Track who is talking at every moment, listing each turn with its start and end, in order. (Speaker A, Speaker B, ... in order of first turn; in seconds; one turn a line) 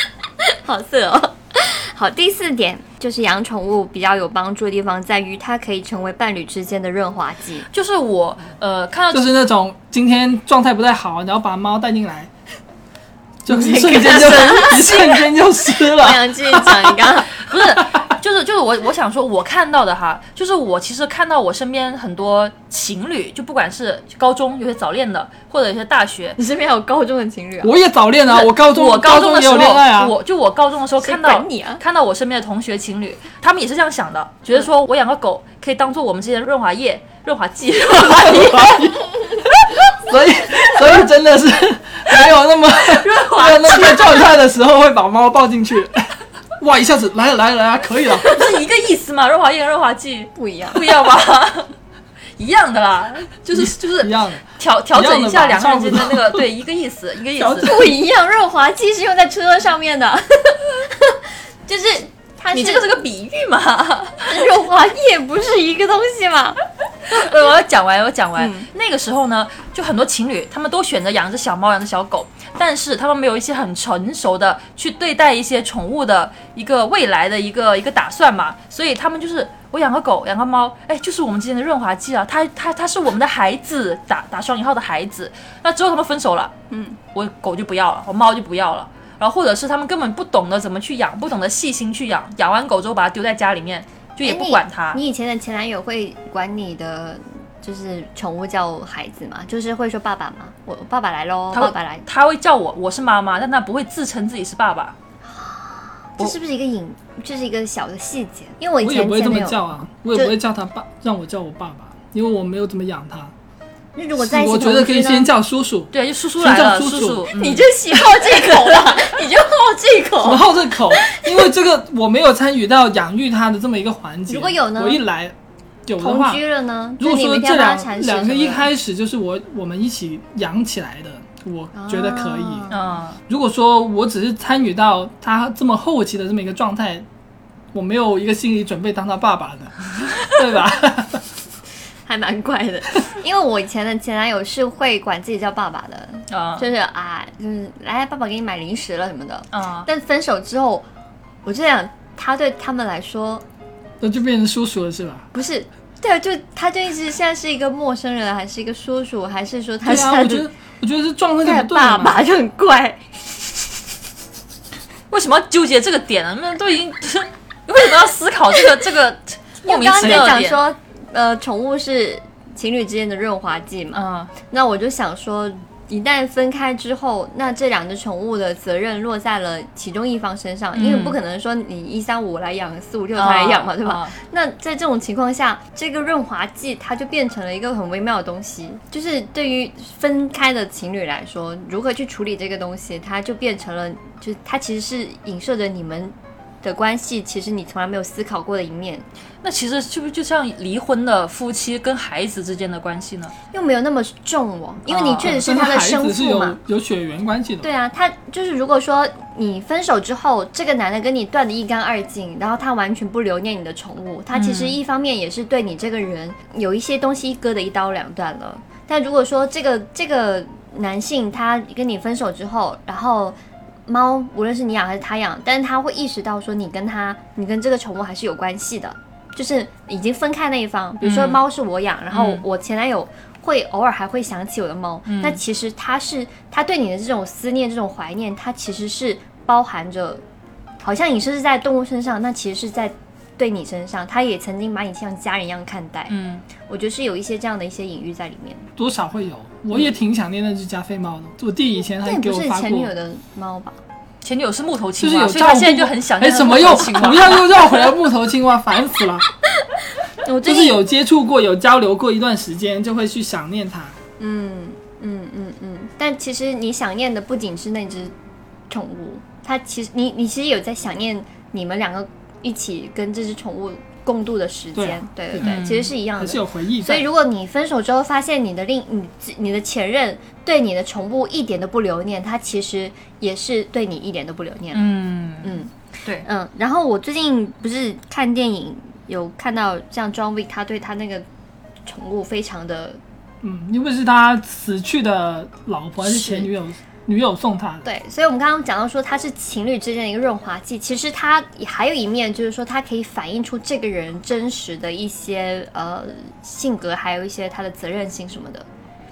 Speaker A: 0.5-7.7
Speaker B: 7.7-9.3
Speaker C: 9.1-12.3
Speaker C: 13.4-17.0
Speaker A: 13.5-15.2
Speaker B: 14.2-15.0
Speaker A: 15.8-17.4
Speaker B: 17.3-26.4
Speaker C: 17.8-18.1
Speaker A: 26.4-27.7
Speaker C: 27.6-30.1
Speaker B: 28.3-38.9
Speaker A: 31.0-31.8
Speaker C: 37.9-48.3
Speaker B: 42.9-44.3
Speaker B: 48.2-51.7
Speaker A: 50.3-50.9
Speaker B: 52.4-57.8
Speaker C: 53.5-56.5
Speaker C: 57.4-57.9
Speaker A: 57.6-62.9
Speaker B: 62.5-64.5
Speaker A: 64.3-66.6
Speaker B: 67.1-86.5
Speaker A: 68.4-68.7
Speaker A: 86.7-87.0
Speaker B: 87.1-95.0
Speaker A: 94.2-102.0
Speaker B: 101.5-104.9
Speaker A: 105.2-110.3
Speaker C: 108.8-113.3
Speaker A: 113.9-115.3
Speaker C: 114.2-117.3
Speaker B: 115.9-117.7
Speaker A: 117.4-121.4
Speaker C: 120.2-125.3
Speaker A: 124.3-125.0
Speaker C: 125.8-126.4
Speaker A: 126.0-128.7
Speaker C: 127.0-132.7
Speaker A: 131.7-132.9
Speaker B: 132.7-133.2
Speaker C: 133.3-137.1
Speaker C: 137.7-141.2
Speaker B: 140.0-140.3
Speaker A: 142.1-150.8
Speaker B: 146.3-146.7
Speaker B: 149.5-149.9
Speaker A: 151.4-153.4
Speaker C: 154.0-155.2
Speaker A: 155.3-160.4
Speaker C: 159.8-162.2
Speaker A: 161.4-163.0
Speaker B: 165.1-170.6
Speaker A: 169.6-199.1
Speaker C: 170.0-170.3
Speaker B: 173.9-174.3
Speaker B: 180.7-181.2
Speaker B: 183.2-184.2
Speaker B: 199.4-203.3
Speaker A: 203.5-206.6
Speaker B: 204.9-205.3
Speaker C: 205.2-207.7
Speaker A: 207.6-223.3
Speaker B: 214.3-214.8
Speaker A: 223.9-240.2
Speaker B: 231.0-231.4
Speaker B: 232.1-232.4
Speaker B: 235.1-235.4
Speaker A: 240.8-248.7
Speaker B: 246.1-246.4
Speaker C: 248.8-252.9
Speaker A: 252.0-253.8
Speaker B: 254.2-257.7
Speaker C: 255.0-259.2
Speaker A: 260.2-260.8
Speaker C: 260.4-263.9
Speaker A: 264.2-268.1
Speaker A: 268.7-284.9
Speaker C: 274.7-277.1
Speaker B: 275.4-275.9
Speaker B: 284.7-286.2
Speaker A: 285.4-285.7
Speaker A: 286.2-291.2
Speaker A: 291.8-293.0
Speaker C: 293.4-297.9
Speaker A: 296.0-296.5
Speaker A: 297.8-308.6